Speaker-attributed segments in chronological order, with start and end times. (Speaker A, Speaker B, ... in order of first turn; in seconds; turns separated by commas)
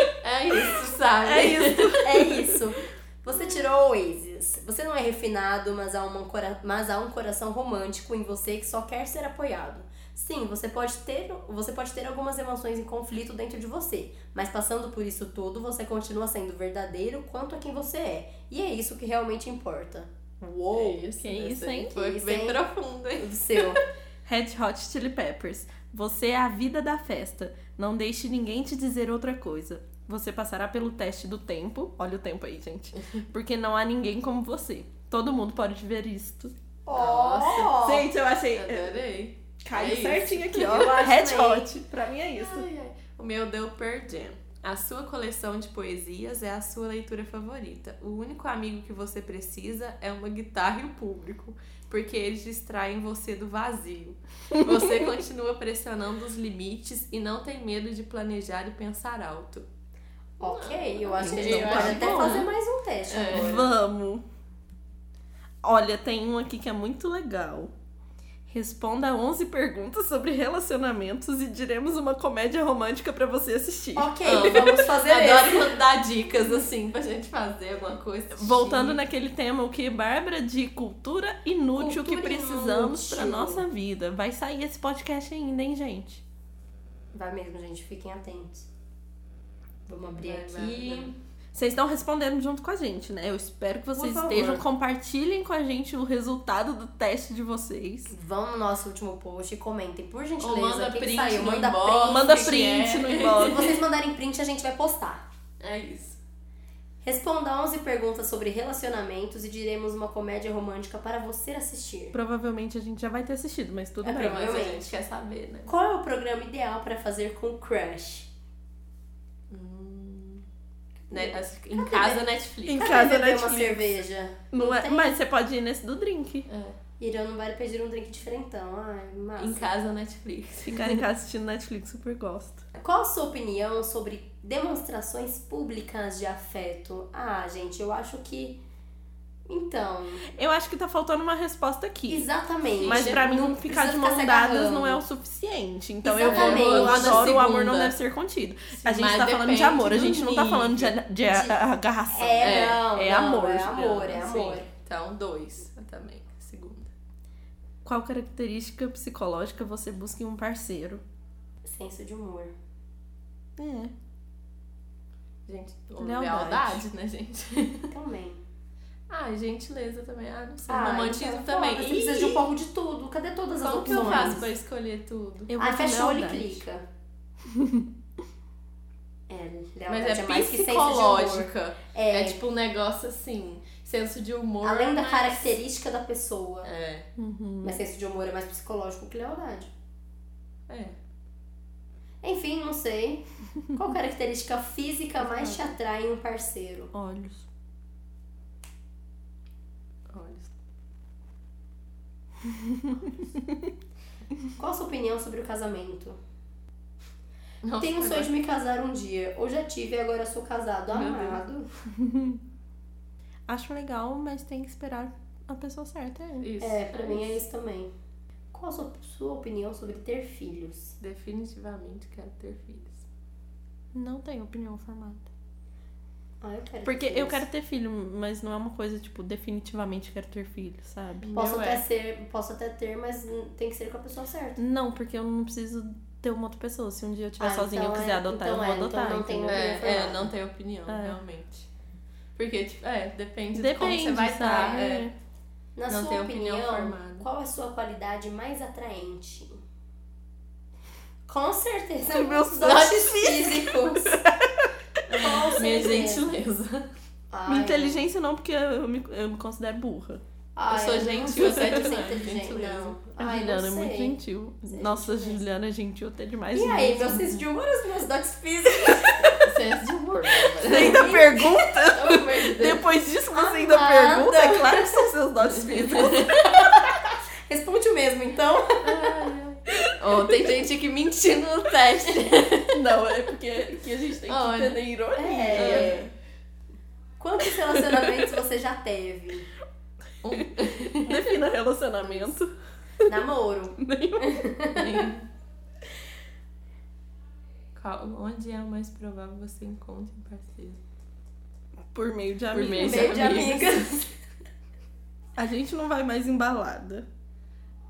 Speaker A: 0.2-2.0, Speaker B: 1.2-2.6, Speaker C: 2.0-21.1, Speaker A: 20.7-23.8, Speaker B: 21.2-21.9, Speaker C: 21.9-22.6, Speaker C: 23.2-23.8, Speaker B: 24.2-36.5, Speaker C: 36.9-38.1, Speaker A: 36.9-37.8, Speaker B: 37.7-38.9, Speaker A: 38.5-40.9, Speaker B: 39.6-42.7, Speaker C: 40.5-41.7, Speaker A: 42.4-59.7, Speaker B: 54.5-54.9, Speaker C: 60.4-63.6, Speaker A: 60.4-62.5, Speaker B: 61.2-62.5, Speaker A: 63.1-63.7, Speaker B: 63.3-64.2, Speaker B: 65.6-67.7, Speaker B: 68.5-74.8, Speaker C: 74.0-75.7, Speaker A: 74.2-79.0, Speaker B: 78.3-86.2, Speaker C: 81.8-83.6, Speaker C: 87.1-88.7, Speaker C: 89.9-91.1, Speaker A: 90.2-91.1, Speaker B: 91.5-98.1, Speaker C: 94.0-94.6, Speaker C: 98.1-102.6, Speaker A: 100.4-103.8, Speaker B: 102.1-103.8, Speaker C: 103.4-105.3, Speaker A: 105.6-106.2, Speaker C: 107.0-112.2, Speaker B: 112.1-114.6, Speaker C: 114.0-114.9, Speaker A: 114.1-115.7, Speaker C: 115.7-118.3, Speaker A: 119.5-120.4, Speaker C: 121.1-125.2, Speaker A: 121.1-122.9, Speaker B: 122.7-124.0, Speaker B: 124.5-126.5, Speaker A: 126.5-126.8, Speaker C: 127.0-129.7, Speaker A: 129.4-131.0, Speaker B: 130.6-132.6, Speaker C: 132.8-138.6, Speaker C: 139.5-140.3, Speaker B: 140.3-142.3, Speaker C: 142.1-145.0, Speaker A: 142.8-143.2, Speaker B: 142.8-154.3, Speaker C: 146.0-147.4, Speaker A: 146.2-147.9, Speaker A: 148.8-151.0, Speaker C: 151.3-151.6, Speaker C: 152.1-154.7, Speaker A: 152.4-152.8, Speaker A: 153.8-156.9, Speaker B: 157.8-161.0, Speaker C: 161.6-162.5, Speaker B: 163.6-163.9, Speaker A: 165.5-167.9, Speaker B: 166.0-166.9, Speaker C: 167.9-168.4, Speaker A: 169.1-172.5, Speaker C: 170.7-174.4, Speaker A: 173.6-175.5, Speaker B: 173.9-174.4, Speaker B: 175.5-176.6, Speaker C: 175.6-176.8, Speaker B: 177.5-177.9, Speaker C: 179.3-182.4, Speaker A: 179.9-185.6, Speaker C: 184.6-186.7, Speaker A: 186.6-187.1, Speaker B: 187.2-187.8, Speaker C: 187.6-189.7, Speaker A: 190.7-191.0, Speaker C: 192.2-196.9, Speaker A: 195.2-195.8, Speaker B: 196.9-197.5, Speaker A: 200.1-200.5, Speaker B: 202.4-203.7, Speaker C: 204.6-206.2, Speaker A: 207.6-208.3, Speaker C: 207.8-211.7, Speaker A: 210.9-211.4, Speaker B: 211.9-212.4, Speaker B: 213.5-216.5, Speaker A: 216.4-217.4, Speaker C: 216.6-217.9, Speaker C: 218.5-221.0, Speaker A: 221.0-223.1, Speaker B: 223.9-225.3, Speaker C: 226.4-227.4, Speaker B: 226.8-231.3, Speaker A: 231.2-231.8, Speaker C: 231.3-234.6, Speaker B: 234.6-239.6, Speaker C: 237.4-240.3, Speaker A: 239.5-241.7, Speaker B: 240.9-241.2, Speaker A: 242.4-245.1, Speaker B: 243.5-245.1, Speaker C: 245.8-249.6, Speaker A: 245.9-247.3, Speaker C: 251.3-254.2, Speaker B: 252.1-255.4, Speaker A: 252.6-253.2, Speaker C: 255.1-256.2, Speaker A: 255.1-256.9, Speaker C: 257.3-258.0, Speaker B: 257.5-260.2, Speaker C: 260.6-264.2, Speaker A: 260.7-263.0, Speaker B: 261.4-261.9, Speaker B: 263.2-267.4, Speaker C: 264.7-265.4, Speaker C: 266.5-269.3, Speaker B: 268.8-269.4, Speaker A: 269.3-271.1, Speaker B: 270.6-276.8, Speaker C: 270.6-271.9, Speaker A: 271.9-272.8, Speaker C: 273.3-275.1, Speaker A: 275.5-276.7, Speaker C: 276.5-277.0, Speaker C: 277.5-279.1, Speaker A: 278.8-282.8, Speaker B: 279.7-280.0, Speaker B: 282.7-286.1, Speaker A: 284.3-284.9, Speaker C: 285.2-286.1, Speaker A: 285.5-286.0, Speaker C: 287.2-289.5, Speaker B: 287.5-288.1, Speaker A: 290.2-291.3, Speaker B: 291.0-292.5, Speaker C: 293.1-295.1, Speaker B: 293.8-294.4, Speaker A: 294.7-295.3, Speaker A: 297.8-300.8, Speaker B: 301.9-303.8, Speaker A: 302.5-303.9, Speaker C: 302.8-304.1, Speaker B: 305.4-307.1